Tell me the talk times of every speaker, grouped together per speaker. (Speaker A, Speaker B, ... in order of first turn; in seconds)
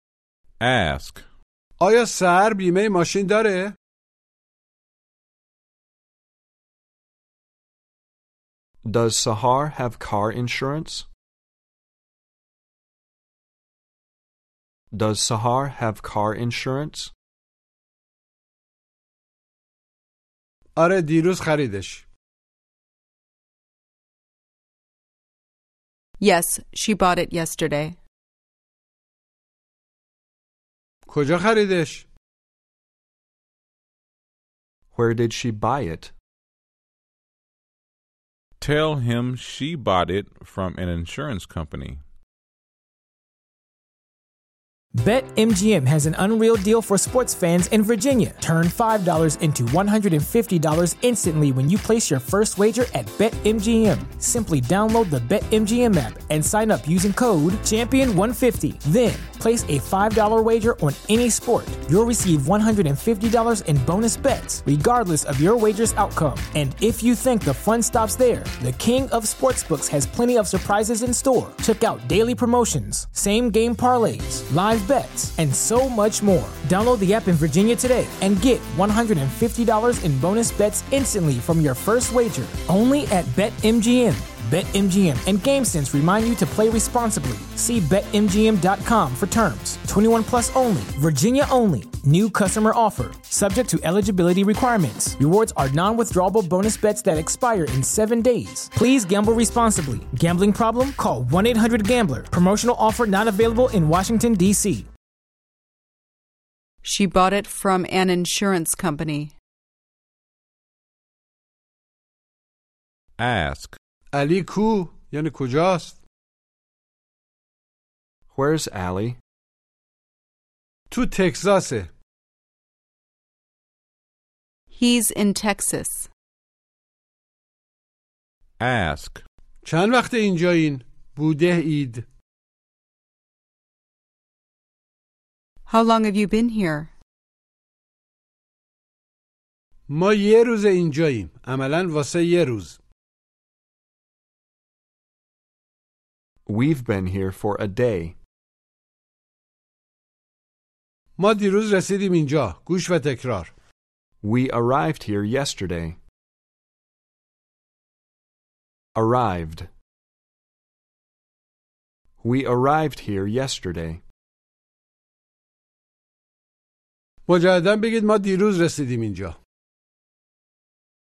Speaker A: 0.6-1.2, 38.6-42.0, 113.2-113.8, 128.6-129.2
Speaker B: 1.8-3.8, 20.8-22.0, 31.1-32.1, 114.1-116.0, 120.9-121.9, 129.6-132.0, 139.9-142.8, 151.2-153.5, 167.3-169.4
Speaker C: 8.8-11.1, 14.9-17.1, 34.9-36.1, 118.3-119.2, 146.5-148.2, 154.2-156.0, 158.9-159.7, 162.2-164.0
Speaker D: 26.2-28.0, 106.8-109.3, 124.7-126.1, 135.7-136.9
Speaker E: 45.0-104.9